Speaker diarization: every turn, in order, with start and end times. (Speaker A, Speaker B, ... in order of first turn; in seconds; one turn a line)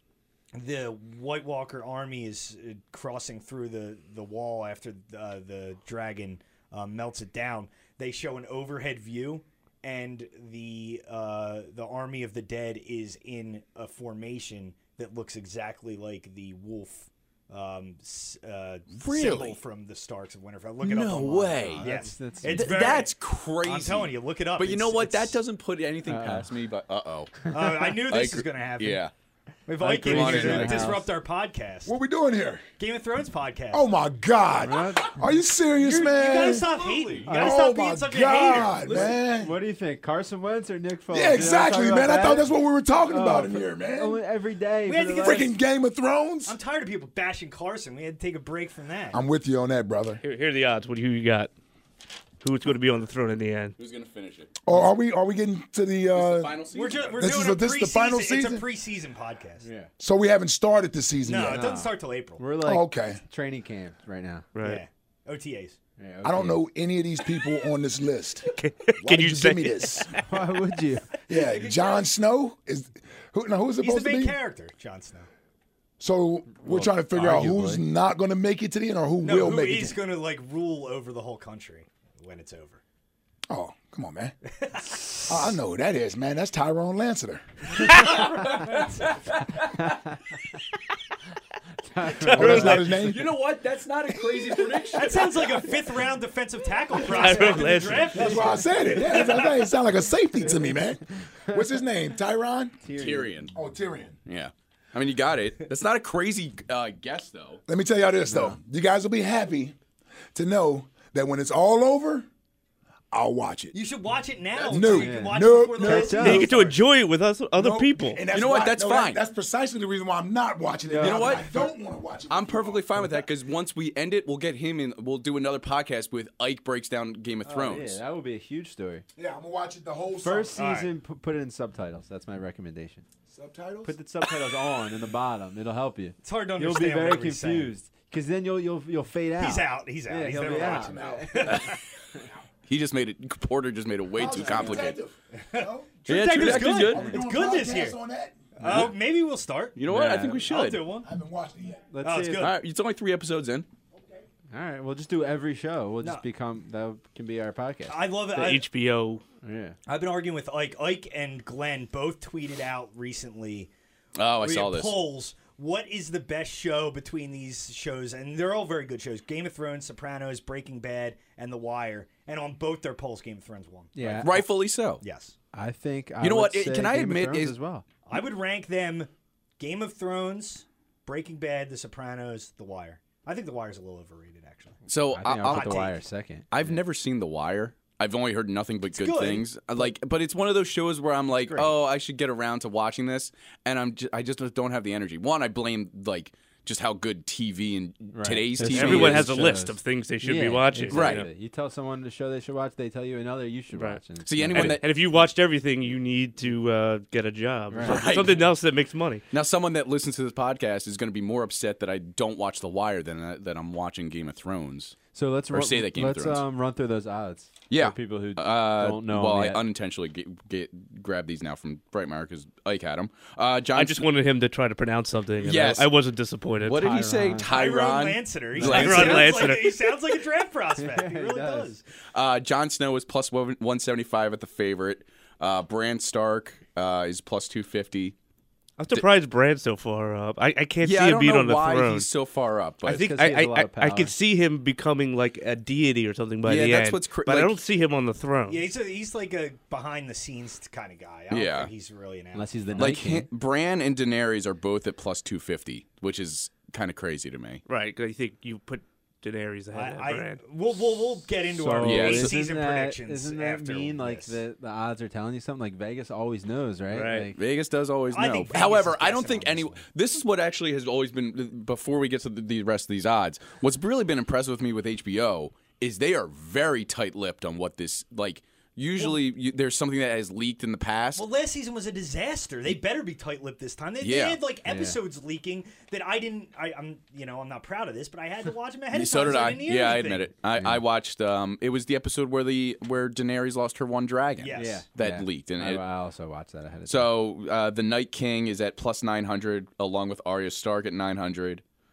Speaker A: 0.5-25.4
Speaker B: 19.0-19.6
Speaker B: 20.8-21.9
Speaker C: 21.6-22.8
Speaker B: 22.5-27.4
Speaker C: 26.1-26.5
Speaker A: 27.5-29.0
Speaker B: 28.1-29.1
Speaker A: 29.7-31.9
Speaker B: 29.9-30.9
Speaker C: 29.9-31.1
Speaker D: 31.9-32.6
Speaker A: 32.8-33.8
Speaker D: 33.7-39.5
Speaker C: 34.6-35.2
Speaker A: 35.8-39.1
Speaker C: 37.2-37.6
Speaker C: 38.9-45.5
Speaker D: 41.1-44.2
Speaker A: 44.9-45.5
Speaker D: 45.2-46.5
Speaker A: 46.5-49.2
Speaker D: 49.1-50.2
Speaker E: 50.2-51.5
Speaker E: 52.4-53.8
Speaker B: 53.8-54.5
Speaker D: 54.6-56.6
Speaker B: 56.1-57.1
Speaker A: 56.7-59.7
Speaker D: 57.2-58.6
Speaker C: 59.6-59.9
Speaker D: 60.0-61.7
Speaker A: 61.2-62.4
Speaker C: 61.4-64.5
Speaker D: 62.6-63.2
Speaker E: 64.5-64.8
Speaker A: 64.6-65.8
Speaker C: 66.0-66.6
Speaker D: 66.2-70.1
Speaker E: 68.5-70.2
Speaker C: 70.2-71.2
Speaker D: 71.3-74.4
Speaker A: 71.3-72.1
Speaker A: 73.8-75.3
Speaker D: 76.0-80.0
Speaker C: 76.6-77.8
Speaker A: 79.2-82.8
Speaker D: 83.5-84.3
Speaker A: 84.5-85.0
Speaker C: 84.8-85.5
Speaker D: 85.3-87.9
Speaker B: 87.9-89.8
Speaker C: 89.8-90.2
Speaker C: 91.8-93.1
Speaker E: 92.2-92.8
Speaker D: 92.3-93.3
Speaker B: 92.4-95.8
Speaker A: 94.9-99.5
Speaker E: 97.0-98.4
Speaker D: 98.2-102.9
Speaker C: 100.4-100.8
Speaker C: 102.8-103.5
Speaker B: 102.9-103.5
Speaker D: 103.5-104.2
Speaker B: 104.2-107.6
Speaker D: 107.7-109.8
Speaker C: 108.3-108.6
Speaker D: 110.3-112.3
Speaker D: 113.1-113.8
Speaker A: 113.7-116.8
Speaker D: 114.6-116.7
Speaker C: 114.9-116.5
Speaker E: 116.2-118.2
Speaker D: 117.5-123.2
Speaker B: 118.3-119.2
Speaker C: 120.8-121.7
Speaker B: 121.0-121.7
Speaker B: 122.3-128.0
Speaker C: 127.5-129.1
Speaker D: 129.2-130.6
Speaker C: 130.2-133.0
Speaker A: 130.6-130.9
Speaker D: 133.3-133.9
Speaker C: 133.9-141.7
Speaker A: 136.2-137.7
Speaker A: 139.4-141.8
Speaker D: 140.3-141.7
Speaker B: 141.4-141.7
Speaker B: 142.7-145.0
Speaker D: 144.2-148.6
Speaker C: 144.3-144.9
Speaker A: 145.5-148.0
Speaker B: 146.1-147.1
Speaker A: 148.6-151.1
Speaker B: 148.6-148.9
Speaker B: 149.8-150.9
Speaker C: 149.9-150.4
Speaker D: 151.0-151.9
Speaker C: 151.9-152.5
Speaker A: 152.0-152.6
Speaker B: 152.4-153.7
Speaker C: 154.5-158.0
Speaker A: 157.9-158.7
Speaker E: 158.3-159.2
Speaker C: 159.4-159.8
Speaker A: 159.9-163.7
Speaker B: 164.2-165.0
Speaker A: 164.4-174.5
Speaker C: 173.9-174.3
Speaker B: 174.2-175.0
Speaker A: 175.0-175.3
Speaker C: 175.5-177.8
Speaker B: 176.2-177.6
Speaker A: 178.1-184.8
Speaker B: 184.9-185.9
Speaker C: 185.1-186.8
Speaker A: 185.4-186.0
Speaker B: 186.5-199.3
Speaker A: 188.9-189.5
Speaker A: 191.4-191.7
Speaker C: 198.1-204.8
Speaker E: 198.6-201.3
Speaker B: 200.9-201.2
Speaker E: 203.7-204.0
Speaker B: 204.3-204.9
Speaker E: 204.5-209.2
Speaker C: 207.7-208.1
Speaker B: 207.8-208.5
Speaker B: 209.3-215.0
Speaker C: 215.1-219.6
Speaker B: 215.5-216.4
Speaker B: 217.7-224.0
Speaker E: 223.7-226.8
Speaker B: 225.4-225.9
Speaker B: 226.6-229.5
Speaker C: 226.8-227.5
Speaker A: 227.5-231.8
Speaker C: 228.6-229.1
Speaker E: 228.6-229.9
Speaker C: 230.8-231.7
Speaker B: 232.1-238.2
Speaker E: 238.8-242.1
Speaker B: 240.8-243.1
Speaker C: 242.8-244.2
Speaker E: 242.8-248.7
Speaker B: 246.5-247.6
Speaker A: 248.5-252.9
Speaker B: 251.3-251.7
Speaker C: 252.3-253.3
Speaker B: 252.8-257.6
Speaker E: 257.7-260.4
Speaker A: 259.7-264.4
Speaker C: 261.5-267.4
Speaker B: 261.8-262.4
Speaker E: 266.9-267.3
Speaker B: 267.4-281.2
Speaker A: 268.1-269.9
Speaker A: 281.2-290.3
Speaker B: 284.0-284.4
Speaker C: 284.6-285.0
Speaker B: 288.9-295.8
Speaker C: 290.5-290.8
Speaker A: 294.4-294.8
Speaker C: 294.5-297.1
Speaker B: 296.9-301.6